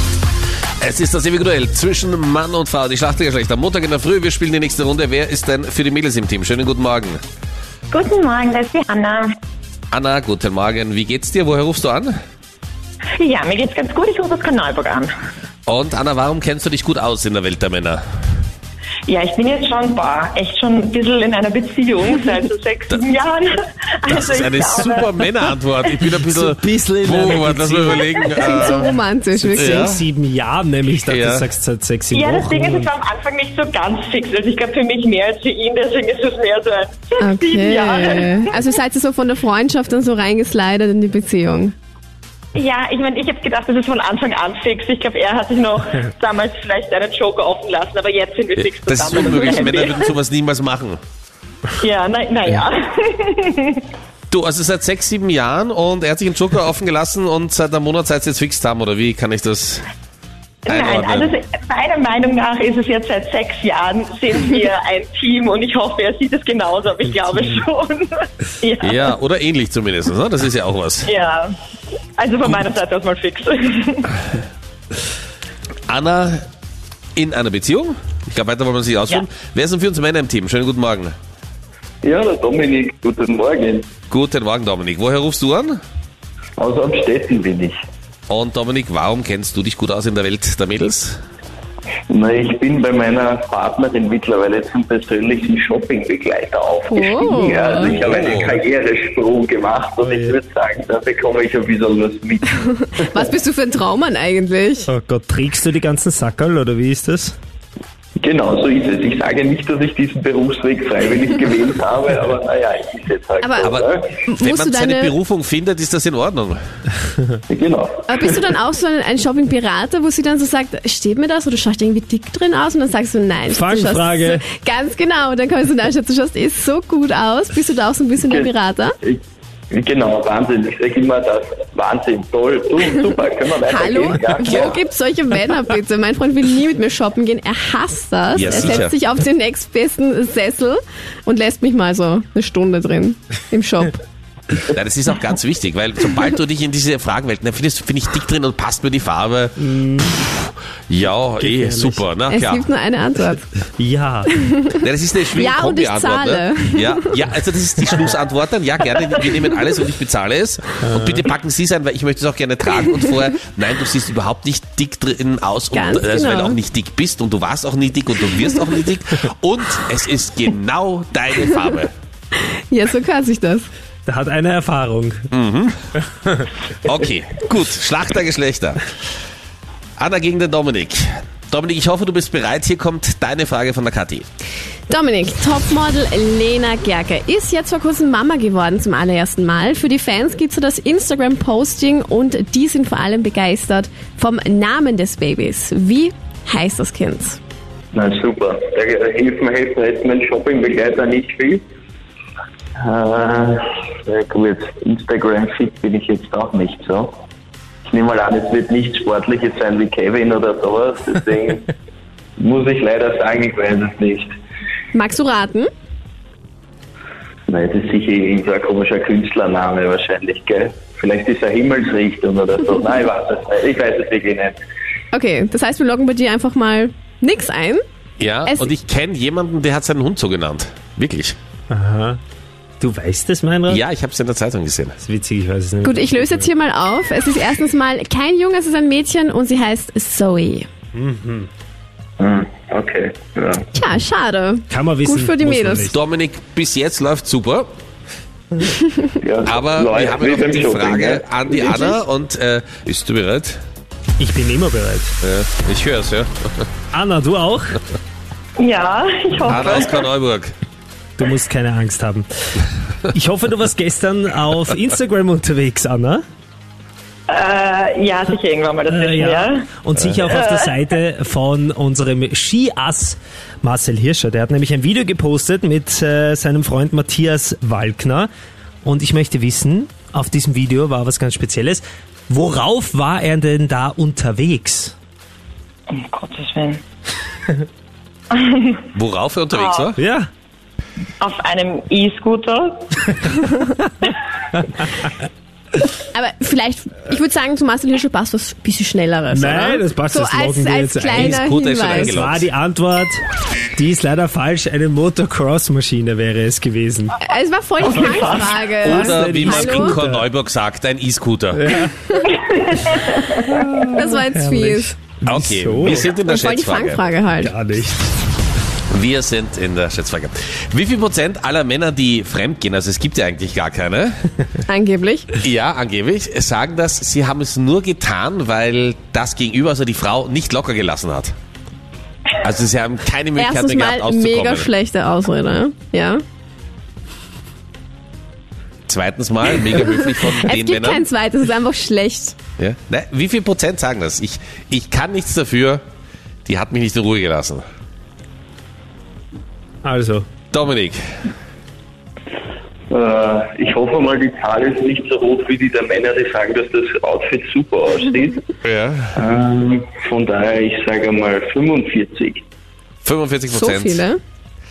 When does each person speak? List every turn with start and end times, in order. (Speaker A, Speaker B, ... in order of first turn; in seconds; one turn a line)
Speaker A: 0.8-7.2
Speaker B: 7.9-9.3
Speaker A: 9.9-12.1
Speaker B: 13.2-15.1
Speaker A: 15.7-18.0
Speaker B: 19.1-25.4
Speaker A: 24.1-28.9
Speaker C: 26.3-28.3
Speaker B: 28.1-28.8
Speaker D: 28.5-29.9
Speaker C: 29.3-32.9
Speaker A: 29.5-30.0
Speaker A: 31.1-31.5
Speaker B: 32.1-38.4
Speaker D: 37.2-41.7
Speaker B: 42.5-50.1
Speaker A: 48.6-51.0
Speaker B: 51.8-53.8
Speaker A: 54.3-59.8
Speaker B: 60.6-69.1
Speaker A: 60.7-61.3
Speaker A: 68.8-71.1
Speaker B: 71.0-71.5
Speaker B: 72.2-74.1
Speaker A: 75.9-76.4
Speaker A: 77.2-81.1
Speaker E: 82.0-83.9
Speaker A: 84.1-85.8
Speaker E: 86.6-87.8
Speaker A: 88.3-91.2
Speaker E: 92.1-102.5
Speaker D: 96.9-98.0
Speaker A: 97.8-98.6
Speaker C: 100.0-100.3
Speaker D: 102.9-104.9
Speaker C: 104.9-107.3
Speaker E: 108.2-114.1
Speaker D: 113.4-115.2
Speaker A: 113.6-116.6
Speaker E: 117.5-118.4
Speaker D: 118.1-128.9
Speaker C: 123.5-124.4
Speaker E: 128.2-128.5
Speaker E: 129.0-134.8
Speaker D: 133.7-144.0
Speaker A: 134.4-134.8
Speaker A: 138.3-138.9
Speaker A: 144.7-149.6
Speaker C: 149.6-150.2
Speaker A: 150.2-152.6
Speaker C: 151.4-152.0
Speaker D: 152.3-153.5
Speaker C: 153.8-154.3
Speaker D: 154.3-157.2
Speaker A: 154.8-171.9
Speaker C: 160.8-161.2
Speaker D: 165.7-166.6
Speaker D: 172.4-173.7
Speaker C: 174.1-175.3
Speaker A: 175.3-175.8
Speaker A: 176.8-178.8
Speaker A: 180.0-184.3
Speaker D: 184.9-197.4
Speaker E: 197.9-201.6
Speaker E: 202.8-207.1
Speaker E: 207.9-211.7
Speaker E: 212.4-214.3
Speaker D: 214.9-215.7
Speaker E: 217.5-224.6
Speaker D: 225.1-227.8
Speaker A: 228.2-231.3
Speaker D: 228.4-228.7
Speaker C: 231.7-232.2
Speaker C: 232.8-233.8
Speaker A: 233.7-234.9
Speaker C: 235.0-236.5
Speaker D: 235.8-240.7
Speaker C: 240.9-241.5
Speaker E: 242.2-243.6
Speaker D: 243.7-245.9
Speaker C: 244.7-246.0
Speaker A: 245.9-247.7
Speaker E: 249.2-251.8
Speaker A: 249.4-253.6
Speaker C: 254.2-255.1
Speaker A: 255.2-256.6
Speaker C: 256.9-257.8
Speaker B: 258.6-260.1
Speaker A: 259.5-260.5
Speaker C: 261.2-262.3
Speaker C: 263.1-266.2
Speaker B: 267.3-269.6
Speaker C: 268.9-278.3
Speaker B: 270.2-270.7
Speaker C: 278.8-284.9
Speaker B: 285.9-286.8
Speaker B: 288.3-288.8
Speaker A: 288.9-290.0
Speaker B: 289.5-289.9
Speaker C: 290.0-290.3
Speaker B: 291.2-293.1
Speaker D: 296.1-302.1
Speaker C: 299.3-303.2
Speaker A: 301.1-302.5
Speaker C: 303.8-307.2
Speaker D: 307.2-310.0
Speaker B: 307.8-308.5
Speaker C: 307.9-310.2
Speaker A: 308.8-311.6
Speaker C: 311.5-311.9
Speaker B: 312.5-313.3
Speaker C: 313.4-316.1
Speaker D: 313.9-314.9
Speaker A: 315.3-317.0
Speaker D: 315.9-317.5
Speaker C: 317.4-318.0
Speaker A: 318.9-324.1
Speaker D: 324.7-325.3
Speaker A: 325.4-331.3
Speaker A: 332.4-334.7
Speaker D: 333.4-336.2
Speaker A: 338.9-341.0
Speaker D: 339.7-342.4
Speaker A: 342.6-345.8
Speaker A: 346.4-347.6
Speaker C: 349.8-350.3
Speaker A: 350.5-351.0
Speaker E: 352.9-358.4
Speaker A: 358.6-359.1
Speaker E: 359.1-362.4
Speaker A: 363.0-364.0
Speaker D: 363.5-364.2